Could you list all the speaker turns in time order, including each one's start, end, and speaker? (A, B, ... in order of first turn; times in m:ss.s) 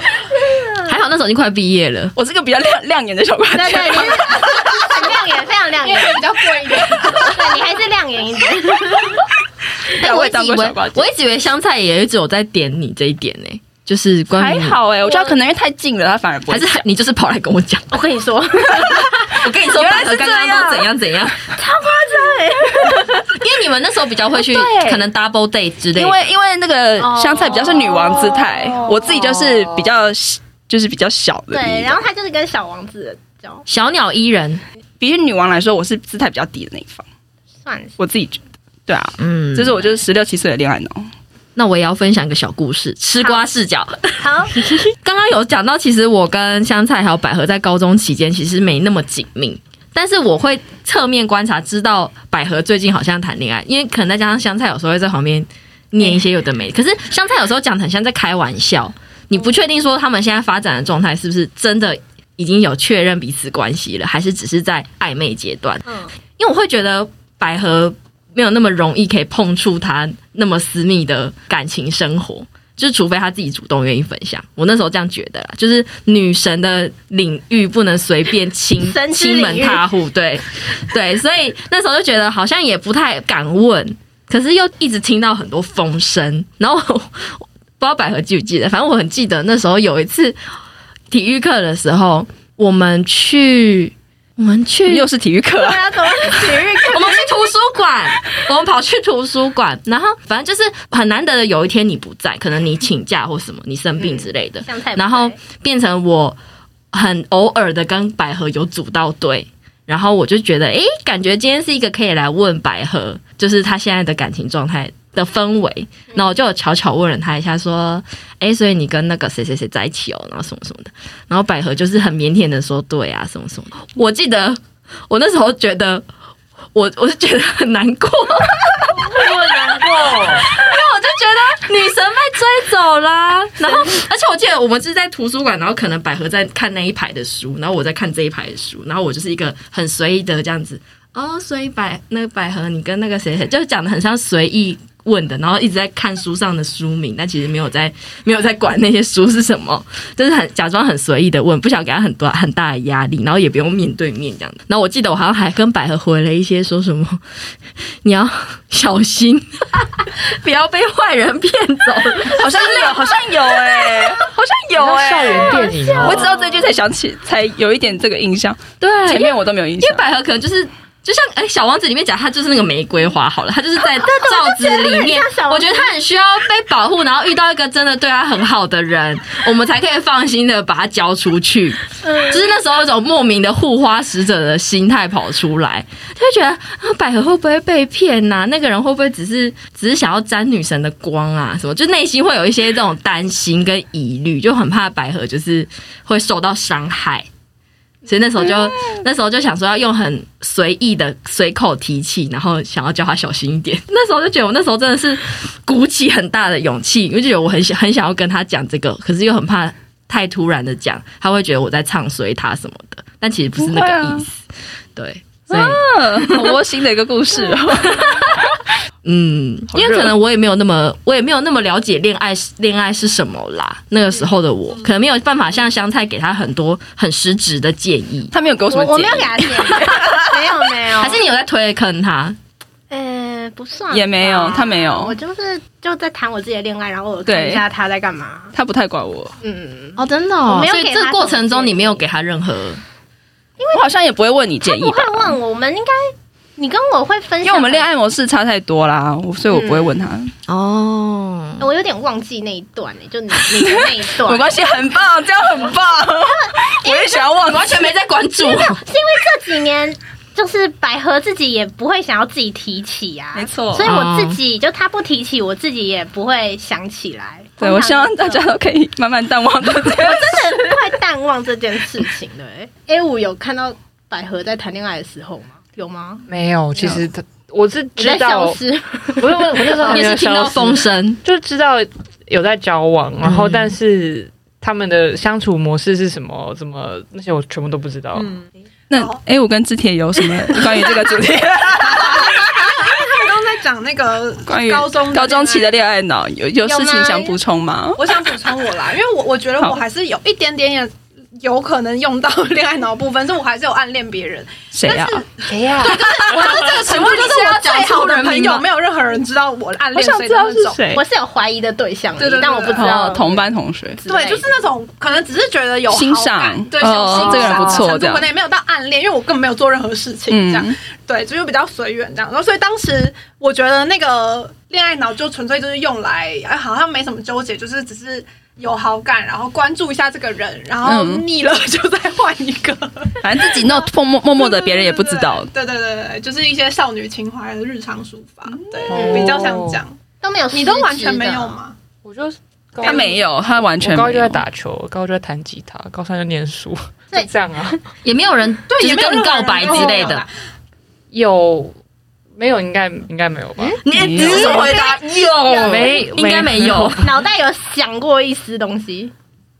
0:00.3-0:01.0 A
0:00.9-0:02.1 B
0:02.2-0:04.5 C
0:03.5-0:06.3 A
0:05.8-0:07.6 D
0:07.0-0:09.3 A
0:09.9-0:11.1 C
0:10.0-0:14.8 B
0:14.4-0:16.8 C
0:15.0-0:15.4 A
0:16.5-0:17.9 B
0:17.9-0:20.8 A
0:18.7-0:21.6 B
0:19.7-0:20.6 C
0:21.5-0:23.2 A
0:22.8-0:26.3 B
0:24.7-0:25.0 A
0:26.0-0:32.0 C
0:27.0-0:28.5 A
0:31.5-0:33.7 A
0:33.7-0:34.6 B
0:35.0-0:37.0 C
0:37.6-0:38.0 A
0:38.0-0:41.1 C
0:39.2-0:39.8 B
0:41.6-1:30.4 B
0:44.2-0:44.7 A
1:18.8-1:19.8 A
1:31.1-1:35.1 B
1:34.9-1:36.4 C
1:35.6-1:37.4 A
1:36.9-1:46.4 B
1:44.6-1:45.4 A
1:46.9-2:06.1 B
2:06.7-2:37.2 B
2:08.9-2:10.5 E
2:38.0-2:44.2 B
2:42.3-2:50.0 C
2:44.8-2:46.3 E
2:45.6-2:46.5 A
2:48.8-3:17.3 B
2:54.0-2:55.9 A
3:02.0-3:02.5 A
3:18.1-3:34.4 B
3:33.6-3:34.3 C
3:35.0-3:36.5 B
3:35.5-3:38.3 C
3:37.8-3:38.4 B
3:39.0-3:48.3 B
3:39.7-3:40.1 C
3:48.3-3:50.5 C
3:48.7-3:51.2 A
3:49.0-3:50.1 B
3:51.0-3:52.4 B
3:52.9-3:58.5 A
3:53.9-3:55.2 C
3:57.3-3:57.6 C
3:58.5-3:59.4 C
3:59.4-4:02.0 A
4:00.0-4:02.8 B
4:03.7-4:05.4 C
4:04.6-4:07.9 A
4:07.4-4:10.3 C
4:09.5-4:10.0 A
4:10.5-4:11.6 B
4:11.6-4:14.6 A
4:14.2-4:17.8 C
4:16.3-4:17.3 A
4:17.4-4:18.8 B
4:18.4-4:28.4 A
4:23.4-4:23.9 C
4:23.8-4:24.4 B
4:27.6-4:30.8 C
4:30.0-4:36.2 A
4:36.3-4:38.6 E
4:36.8-4:37.0 C
4:38.0-4:39.5 A
4:39.2-4:48.3 E
4:39.8-4:41.2 B
4:43.2-4:43.7 B
4:48.2-4:49.2 D
4:48.9-4:52.7 C
4:50.3-4:51.0 D
4:51.8-4:55.8 D
4:54.5-4:58.0 C
4:56.7-4:57.4 D
4:58.0-5:10.8 D
5:04.7-5:05.2 C
5:05.4-5:06.6 E
5:05.9-5:08.6 B
5:09.9-5:11.0 C
5:10.9-5:14.5 A
5:12.2-5:13.1 D
5:12.8-5:14.0 C
5:14.0-5:40.0 D
5:15.9-5:18.3 C
5:20.3-5:20.8 C
5:30.8-5:31.3 C
5:33.2-5:35.5 C
5:38.9-5:39.8 E
5:38.9-5:39.4 A
5:40.2-5:41.6 A
5:40.5-5:41.8 D
5:42.0-5:47.8 E
5:42.8-5:44.4 C
5:42.8-5:43.2 D
5:48.0-5:50.2 B
5:48.7-5:50.3 D
5:51.1-5:51.8 E
5:52.4-5:53.8 E
5:53.8-5:57.2 B
5:53.9-5:54.6 C
5:54.2-5:55.9 D
5:54.5-5:54.8 A
5:55.6-5:57.1 E
5:57.0-5:59.1 A